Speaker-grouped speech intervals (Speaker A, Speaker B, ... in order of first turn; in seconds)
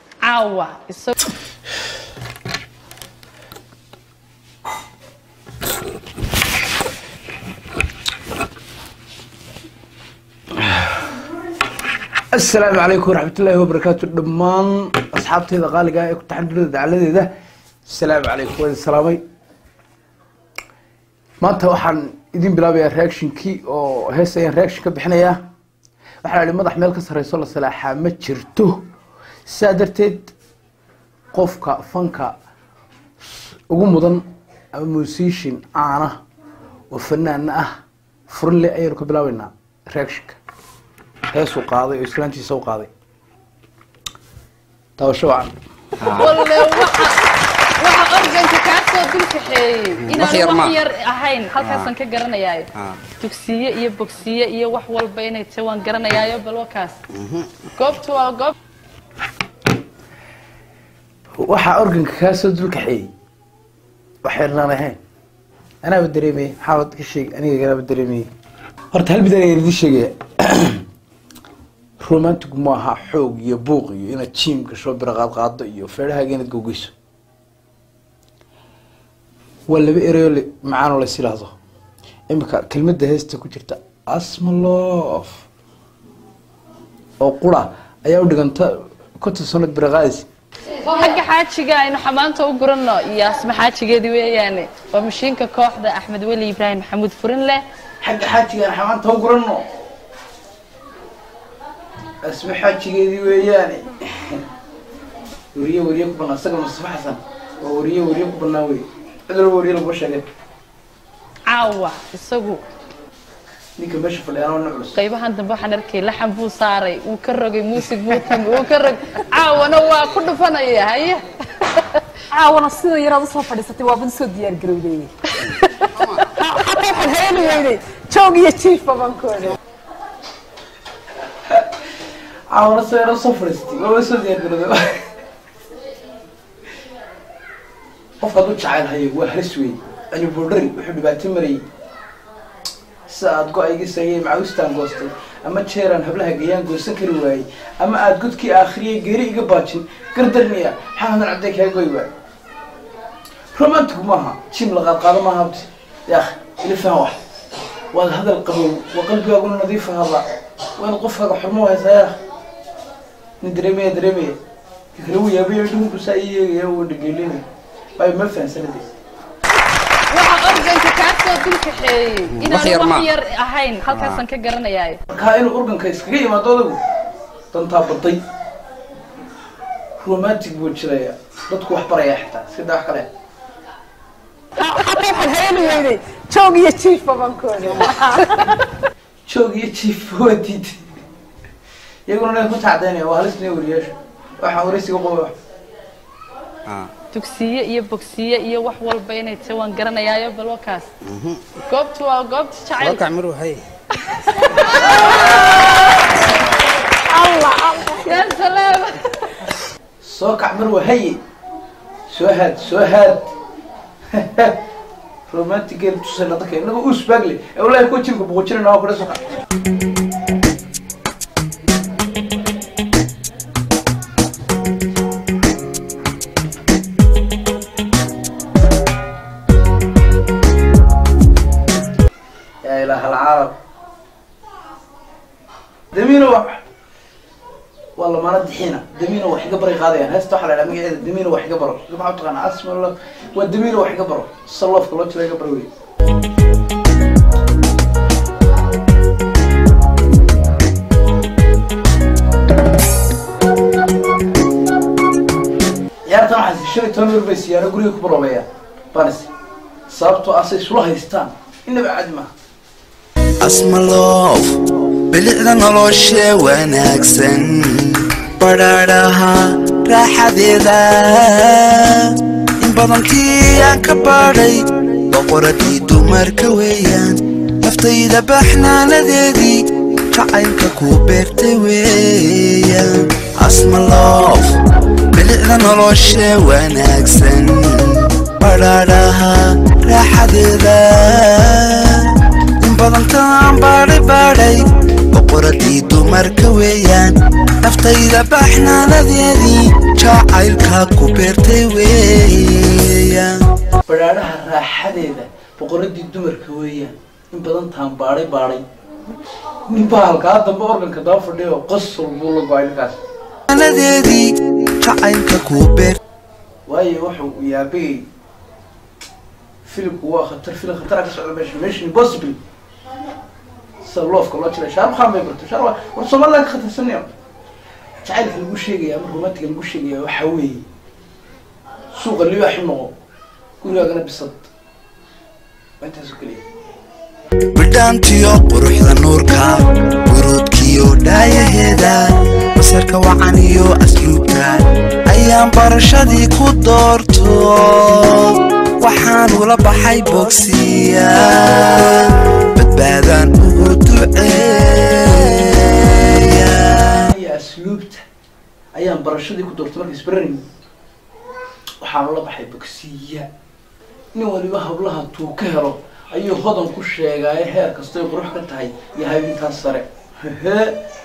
Speaker A: 0.2-1.1, 46.0-57.0, 57.8-58.5, 90.9-97.6, 111.5-112.6, 115.0-122.0, 170.1-175.0, 197.1-200.9, 201.7-203.1, 204.0-205.8, 208.0-209.5
Speaker B: 10.6-11.1, 12.3-17.3, 17.9-19.2, 21.4-25.4, 26.2-28.8, 29.4-30.3, 31.3-32.4, 33.7-36.2, 36.9-37.7, 38.3-40.4, 41.3-42.9, 45.0-45.5, 61.4-63.1, 64.2-65.0, 65.8-68.3, 68.9-70.8, 72.0-76.9, 79.7-81.5, 82.3-85.5, 87.2-90.3, 98.0-99.7, 102.2-104.4, 105.5-110.2, 113.8-115.0, 132.5-135.1, 138.2-141.7, 143.1-152.1, 153.5-157.2, 157.9-160.2, 160.8-162.2, 163.4-164.4, 164.9-167.4, 168.0-168.9, 175.1-176.8, 177.5-178.2, 180.0-183.1, 189.3-190.9, 192.1-195.3, 210.0-211.2, 212.1-213.3, 214.1-214.6, 215.3-219.3, 232.6-233.6, 235.9-236.6, 238.0-245.7, 256.1-259.3, 259.9-262.3, 303.9-308.6, 309.7-313.0, 316.7-318.1, 319.6-322.4, 323.8-327.1, 328.0-330.7, 331.9-332.9, 333.6-334.5, 335.8-336.4, 357.1-358.0, 358.7-360.4, 361.8-363.3, 364.1-370.8
Speaker C: 46.0-46.3, 50.0-50.8, 51.6-51.9, 52.8-53.0, 57.2-57.5, 172.3-173.1, 173.9-174.2, 196.7-196.9, 201.1-201.5, 202.8-203.6
Speaker D: 122.3-129.6, 184.6-188.7, 207.1-208.1
Speaker E: 263.4-284.6, 285.1-303.3, 313.5-316.0, 337.5-357.1